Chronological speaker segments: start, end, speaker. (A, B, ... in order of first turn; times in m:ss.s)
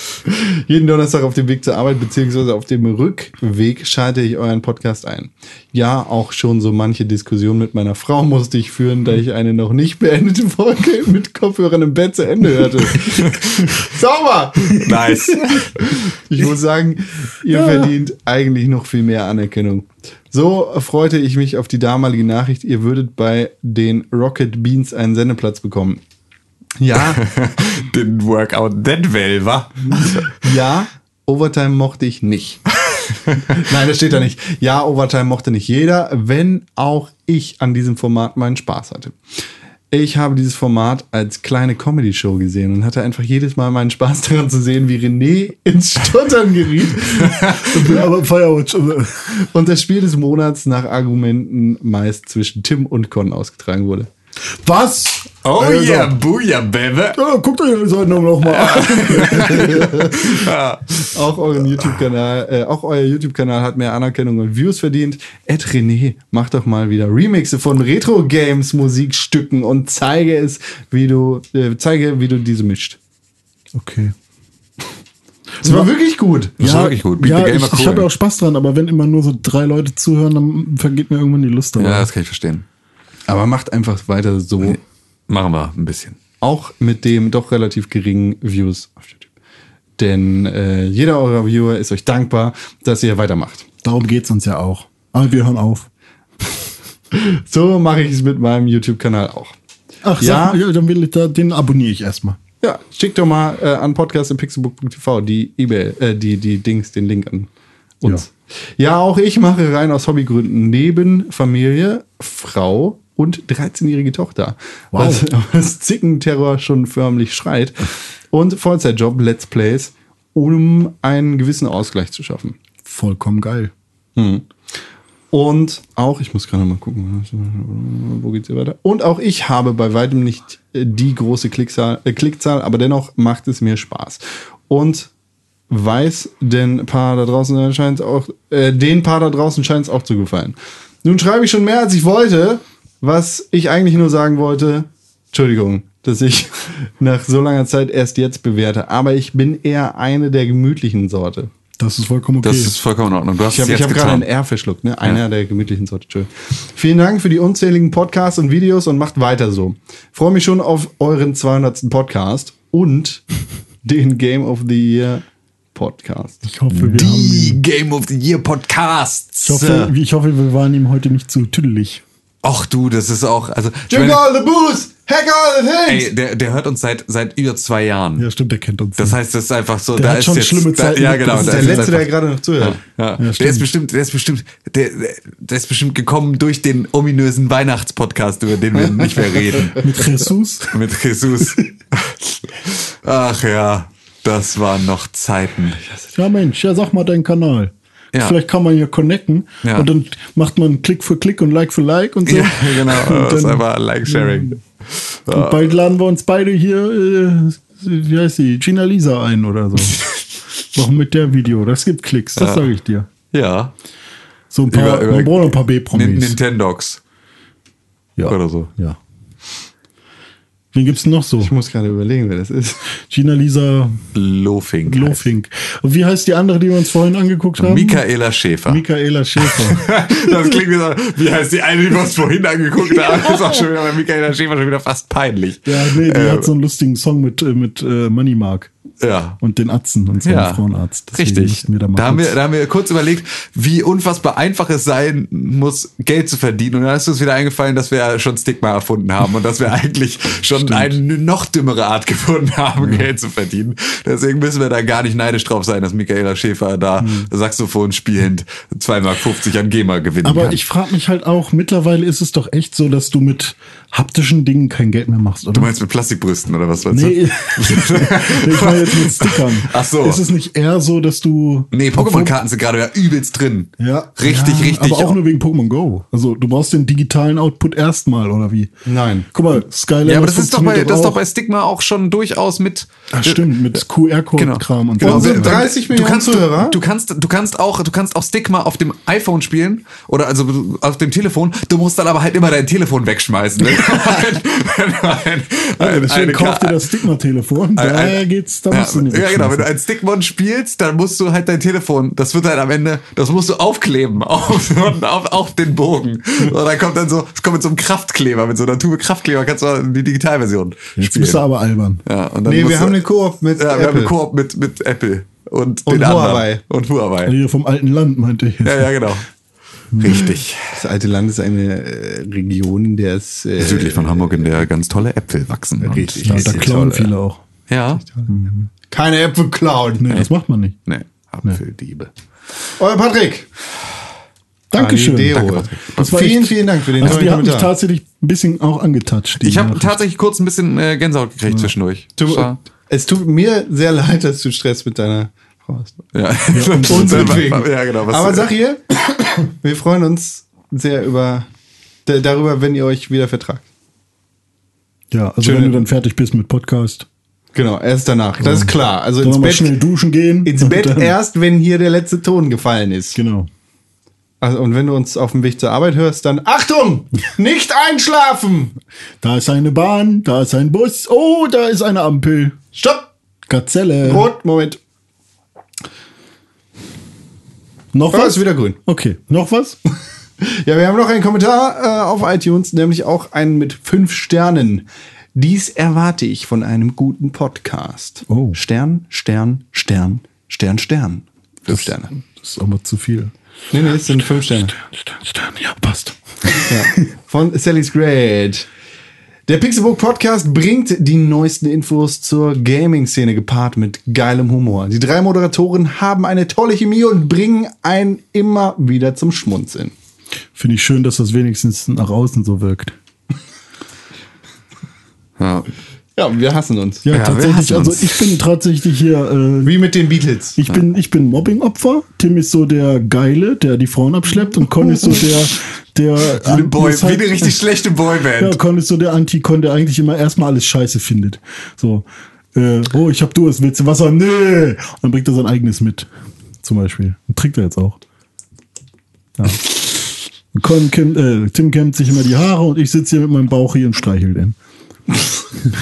0:00.2-0:15.3 A
0:13.2-0:13.7 B
0:14.7-0:15.9 B
0:15.8-0:26.0 A
0:17.5-0:17.9 C
0:26.8-0:27.2 A
0:26.9-0:30.5 B
0:29.9-0:32.6 A
0:32.8-0:33.6 B
0:33.4-0:39.2 A
0:39.9-0:48.0 A
0:47.0-0:47.7 B
0:47.6-0:49.3 C
0:49.3-0:54.1 A
0:54.6-0:55.3 C
0:55.4-0:57.2 B
0:55.6-0:56.1 A
0:57.1-1:00.2 C
0:58.4-1:01.1 B
0:59.6-1:00.4 A
1:01.0-1:13.0 A
1:13.7-1:14.1 C
1:15.6-1:15.9 C
1:15.6-1:16.6 A
1:16.6-1:18.1 B
1:16.6-1:22.1 C
1:21.8-1:22.6 B
1:23.3-1:24.8 A
1:24.6-1:26.2 B
1:26.4-1:29.2 A
1:30.0-1:33.6 A
1:33.8-1:35.9 C
1:37.1-1:39.5 A
1:40.0-1:42.4 C
1:40.2-1:40.6 A
1:42.6-1:47.5 A
1:48.0-2:02.6 A
1:54.9-1:55.2 C
2:02.8-2:03.7 C
2:04.2-2:04.4 A
2:05.3-2:15.1 A
2:15.7-2:31.5 A
2:31.8-2:32.7 C
2:32.4-2:34.2 B
2:33.4-2:43.2 A
2:43.8-2:45.2 A
2:45.7-2:46.4 A
2:46.4-2:47.6 C
2:46.7-2:49.9 B
2:49.4-2:52.0 C
2:52.4-2:54.2 B
2:53.9-2:56.1 A
2:55.9-2:58.2 B
2:58.2-2:59.2 C
2:59.0-3:09.8 B
3:00.0-3:02.0 C
3:01.3-3:02.8 A
3:03.2-3:03.7 C
3:09.8-3:10.7 C
3:10.7-3:15.8 B
3:16.1-3:24.3 C
3:22.2-3:25.8 B
3:25.3-3:30.0 C
3:29.9-3:30.2 B
3:30.7-3:33.1 C
3:32.4-3:32.7 B
3:33.3-3:33.7 B
3:34.5-3:36.4 C
3:34.7-3:37.0 B
3:38.2-3:39.0 C
3:38.3-3:38.7 B
3:40.7-3:41.5 C
3:41.4-3:42.8 A
3:43.0-3:44.1 C
3:44.1-3:45.2 B
3:44.9-3:48.0 C
3:47.6-3:48.8 B
3:48.7-3:50.3 C
3:49.4-3:56.5 B
3:55.6-3:58.7 C
3:59.0-3:59.4 B
3:59.4-4:02.4 C
4:00.2-4:20.6 B
4:10.6-4:11.0 C
4:12.8-4:13.0 C
4:17.0-4:17.3 C
4:20.2-4:25.7 C
4:25.5-4:30.2 B
4:26.9-4:32.4 C
4:31.7-4:35.2 B
4:33.8-4:38.7 C
4:38.8-4:39.3 A
4:39.3-4:41.2 C
4:40.0-4:43.8 B
4:43.1-4:45.6 C
4:44.4-4:57.0 B
4:45.0-4:46.8 A
4:55.8-4:59.7 C
4:57.8-5:11.4 B
5:11.0-5:12.0 C
5:12.0-5:13.0 B
5:12.4-5:14.1 A
5:13.6-5:17.3 B
5:15.8-5:16.6 A
5:17.2-5:19.0 C
5:18.6-5:19.3 B
5:19.9-5:20.3 C
5:20.0-5:20.8 B
5:20.2-5:24.7 A
5:23.6-5:26.7 B
5:25.8-5:27.1 A
5:26.2-5:27.4 C
5:27.7-5:28.0 B
5:28.3-5:28.7 C
5:28.9-5:30.1 A
5:30.0-5:30.8 C
5:30.8-5:32.1 B
5:32.8-5:33.5 A
5:34.7-5:40.0 C
5:34.7-5:37.7 A
5:35.3-5:36.4 B
5:39.4-5:42.6 B
5:42.2-5:46.0 A
5:46.1-5:48.5 B
5:46.5-5:47.5 C
5:46.9-5:51.5 A
5:52.0-5:53.6 A
5:55.1-5:57.1 C
5:55.4-5:55.9 A
5:57.5-5:59.7 A
5:58.4-6:01.1 C
6:00.4-6:03.2 A
6:03.1-6:03.5 C
6:04.4-6:08.8 A
6:09.2-6:12.6 C
6:12.8-6:13.0 A
6:13.5-6:14.3 C
6:14.0-6:14.8 A
6:17.9-6:19.8 C
6:18.1-6:18.8 A
6:20.4-6:32.1 A
6:28.3-6:28.6 C
6:31.7-6:33.3 C
6:33.7-6:34.7 A
6:33.9-6:37.0 C
6:36.7-6:38.7 A
6:39.5-6:49.9 A
6:50.5-6:52.9 C
6:55.4-6:55.7 B
6:56.2-6:57.1 A
6:57.0-6:59.7 C
6:57.1-6:58.3 B
6:59.6-7:00.6 A
7:00.6-7:07.6 C
7:06.2-7:08.6 B
7:08.4-7:16.1 C
7:16.6-7:18.0 C
7:20.5-7:24.6 C